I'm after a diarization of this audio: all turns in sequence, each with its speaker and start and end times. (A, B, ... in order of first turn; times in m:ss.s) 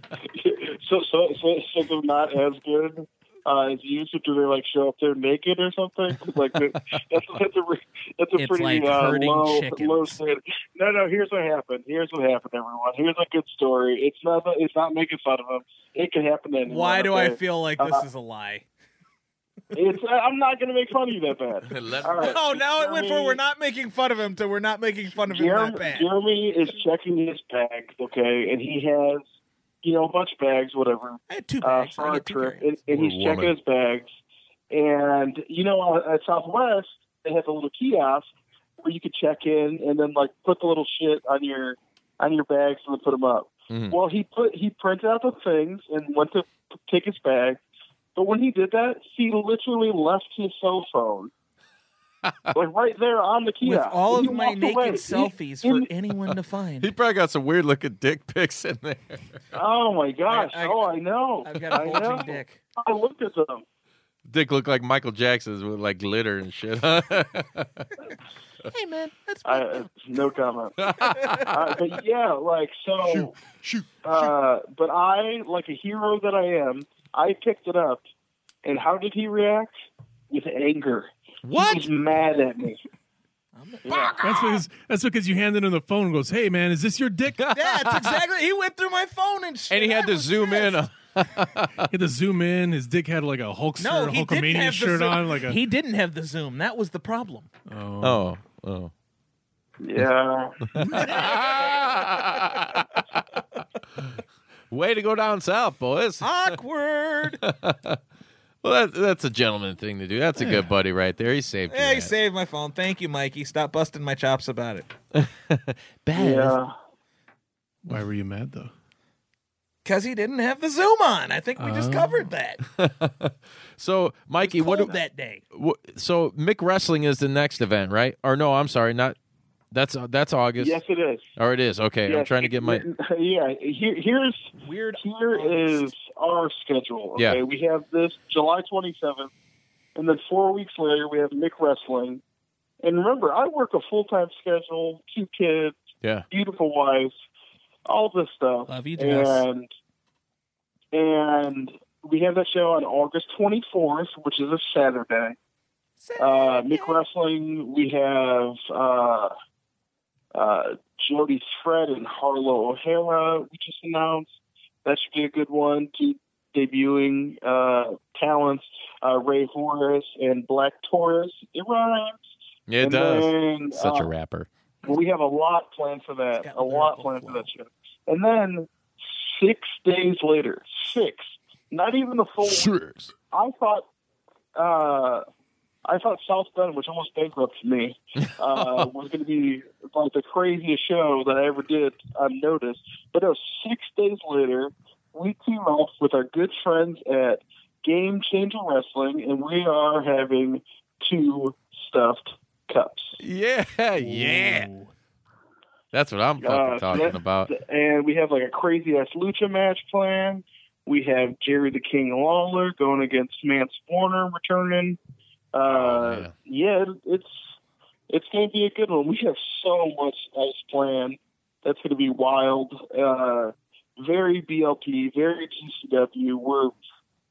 0:00.3-0:18.0 A
0:08.4-0:10.2 B
0:16.7-0:18.6 B
0:19.7-0:23.4 A
0:21.7-0:22.4 C
0:22.2-0:26.1 B
0:25.3-0:29.2 A
0:29.8-0:34.1 A
0:31.3-0:32.7 B
0:32.9-0:33.5 C
0:34.7-0:38.3 A
0:38.8-0:47.6 A
0:43.7-0:44.0 C
0:48.1-0:51.3 A
0:52.2-0:52.5 C
0:52.5-0:55.8 A
0:53.6-0:56.9 B
0:56.8-0:59.2 C
0:59.5-1:03.6 A
1:00.3-1:00.9 B
1:01.4-1:02.6 B
1:04.3-1:07.9 C
1:08.7-1:09.9 B
1:09.4-1:10.8 A
1:10.8-1:11.5 C
1:11.2-1:11.5 B
1:11.5-1:13.3 A
1:13.1-1:14.2 C
1:14.0-1:18.0 A
1:18.6-1:22.8 A
1:21.4-1:21.9 C
1:23.6-1:24.1 B
1:23.8-1:24.2 A
1:23.9-1:24.2 C
1:24.2-1:27.5 D
1:27.4-1:28.1 C
1:27.5-1:30.8 B
1:29.7-1:31.8 C
1:31.9-1:35.6 D
1:33.8-1:37.5 B
1:37.7-1:38.2 D
1:38.0-1:38.9 C
1:39.8-1:40.6 A
1:40.8-1:42.9 C
1:40.8-1:41.1 D
1:40.9-1:41.8 B
1:44.7-1:46.5 C
1:46.2-1:47.4 B
1:47.4-1:48.0 C
1:48.6-1:52.1 C
1:50.4-1:50.7 D
1:51.7-1:54.9 B
1:55.1-1:56.6 C
1:56.2-1:56.7 A
1:57.8-1:58.7 D
1:59.8-2:02.6 B
2:01.6-2:02.3 D
2:02.6-2:04.9 C
2:04.4-2:05.4 B
2:05.5-2:09.2 C
2:09.7-2:10.8 C
2:10.6-2:11.2 A
2:11.4-2:12.8 C
2:12.1-2:19.3 A
2:14.6-2:15.9 B
2:20.0-2:22.2 A
2:22.8-2:25.8 A
2:26.3-2:27.1 A
2:27.8-2:29.7 A
2:28.7-2:29.4 B
2:30.9-2:35.4 A
2:36.0-2:37.0 B
2:36.2-2:39.3 A
2:40.3-2:52.2 A
2:52.7-2:54.5 C
2:52.8-2:54.1 A
2:54.8-3:02.7 A
2:56.4-2:57.5 B
3:02.4-3:03.1 C
3:03.3-3:03.8 A
3:04.5-3:05.2 A
3:05.8-3:23.2 A
3:08.6-3:08.8 C
3:23.2-3:24.7 C
3:24.0-3:24.6 D
3:25.9-3:27.5 C
3:26.4-3:35.0 A
3:35.5-3:37.4 A
3:35.6-3:36.3 C
3:38.1-3:46.7 A